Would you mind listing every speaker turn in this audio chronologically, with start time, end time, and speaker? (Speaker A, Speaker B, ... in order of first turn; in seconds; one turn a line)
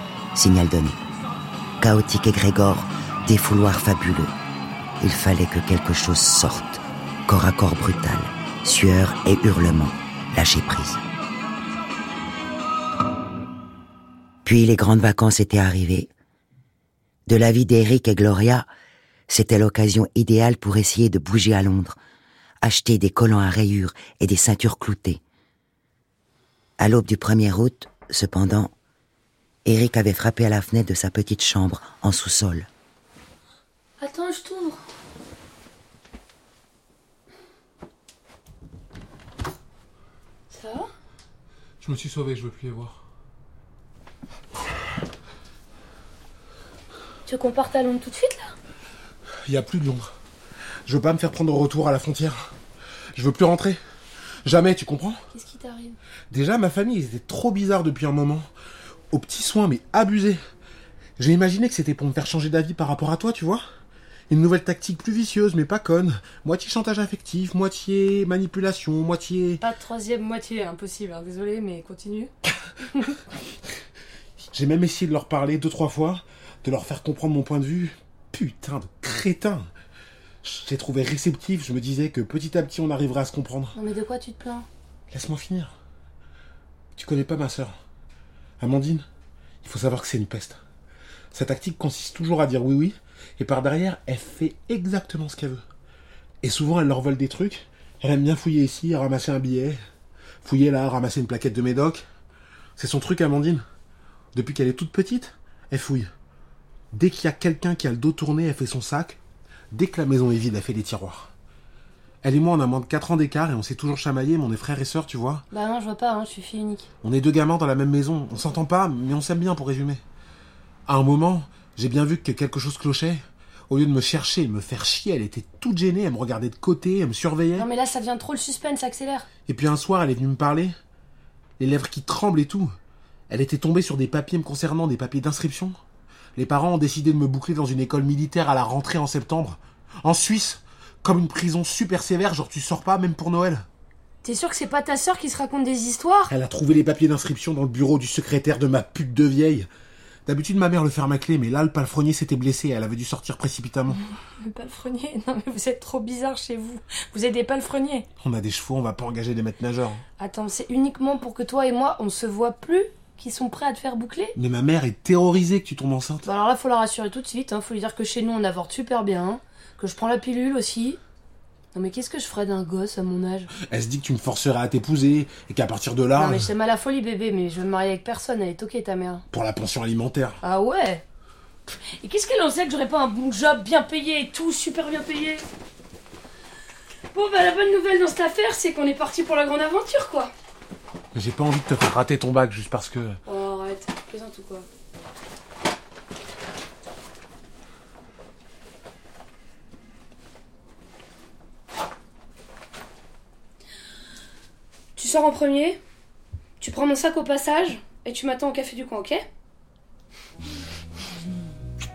Speaker A: 0.3-1.0
Speaker A: 1.8-4.3
Speaker A: 5.0-11.0
Speaker A: 14.4-16.1
Speaker A: 17.3-18.7
Speaker A: 19.3-22.0
Speaker A: 22.6-25.2
Speaker A: 26.8-28.7
Speaker A: 29.6-32.7
Speaker B: 34.0-34.8
Speaker B: 40.5-40.9
Speaker C: 41.8-43.0
Speaker B: 47.3-48.5
Speaker C: 49.5-50.1
Speaker C: 50.9-52.5
Speaker C: 53.1-53.8
Speaker C: 54.5-55.2
Speaker B: 55.3-56.0
Speaker C: 56.3-58.5
Speaker C: 59.1-60.4
Speaker C: 61.2-63.6
Speaker C: 64.3-69.6
Speaker B: 69.6-72.3
Speaker C: 74.5-79.7
Speaker C: 80.4-83.8
Speaker B: 83.8-84.7
Speaker C: 85.1-85.7
Speaker C: 87.0-87.8
Speaker C: 88.6-89.1
Speaker C: 89.6-90.6
Speaker C: 91.3-95.6
Speaker C: 96.4-99.8
Speaker C: 100.4-102.0
Speaker C: 102.8-103.7
Speaker C: 104.3-106.1
Speaker C: 106.9-109.2
Speaker C: 109.7-111.3
Speaker C: 112.2-115.5
Speaker B: 115.5-116.9
Speaker C: 117.0-120.0
Speaker C: 120.9-127.7
Speaker B: 127.6-129.3
Speaker C: 129.5-130.8
Speaker C: 131.6-132.7
Speaker C: 133.3-135.8
Speaker C: 136.4-143.7
Speaker B: 144.2-146.3
Speaker C: 146.3-149.7
Speaker C: 150.3-154.0
Speaker B: 154.0-158.1
Speaker C: 158.2-160.0
Speaker B: 160.2-164.3
Speaker C: 164.4-166.3
Speaker B: 166.2-171.0
Speaker B: 171.7-173.5
Speaker C: 173.6-176.5
Speaker B: 176.2-179.2
Speaker C: 179.3-180.4
Speaker B: 180.4-181.0
Speaker B: 182.0-185.4
Speaker B: 187.1-190.3
Speaker C: 191.1-193.2
Speaker B: 193.3-194.7
Speaker B: 205.0-205.8
Speaker B: 206.6-209.2